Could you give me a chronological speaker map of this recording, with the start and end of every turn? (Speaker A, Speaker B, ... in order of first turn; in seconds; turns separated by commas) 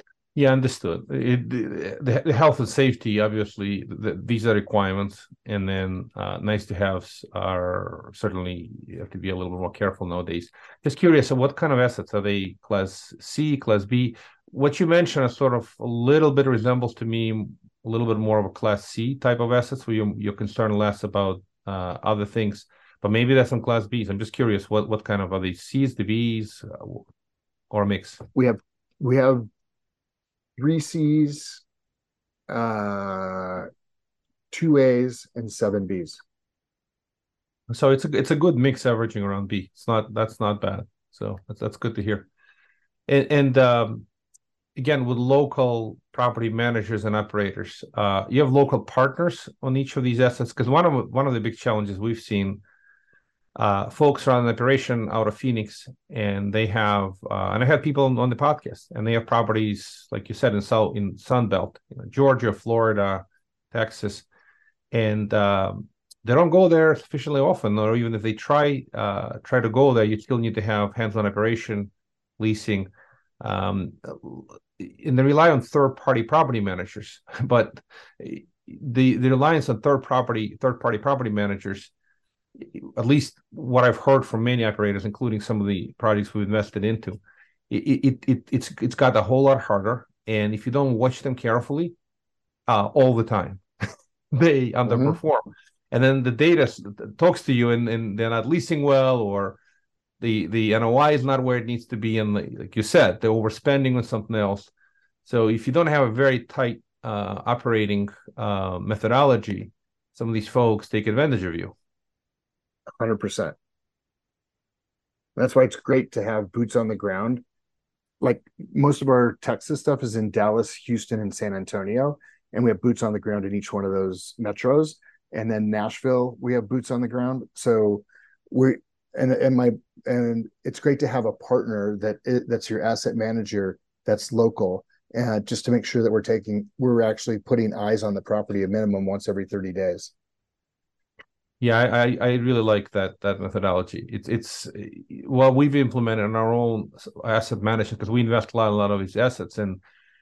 Speaker A: 0.3-27.0, Speaker A: 27.7-28.2, Speaker B: 28.4-29.5, Speaker B: 30.6-31.6, Speaker B: 32.5-33.7, Speaker B: 34.5-36.2, Speaker A: 37.7-42.3, Speaker A: 43.1-44.1, Speaker A: 44.8-52.6, Speaker A: 53.6-64.3, Speaker A: 64.9-72.9, Speaker A: 73.4-81.9, Speaker A: 82.6-92.0, Speaker A: 92.7-93.6, Speaker A: 94.3-99.6, Speaker B: 94.9-95.2, Speaker A: 100.2-104.7, Speaker A: 105.2-111.7, Speaker B: 113.0-113.5, Speaker B: 115.4-117.4, Speaker B: 118.2-140.1, Speaker A: 141.6-149.8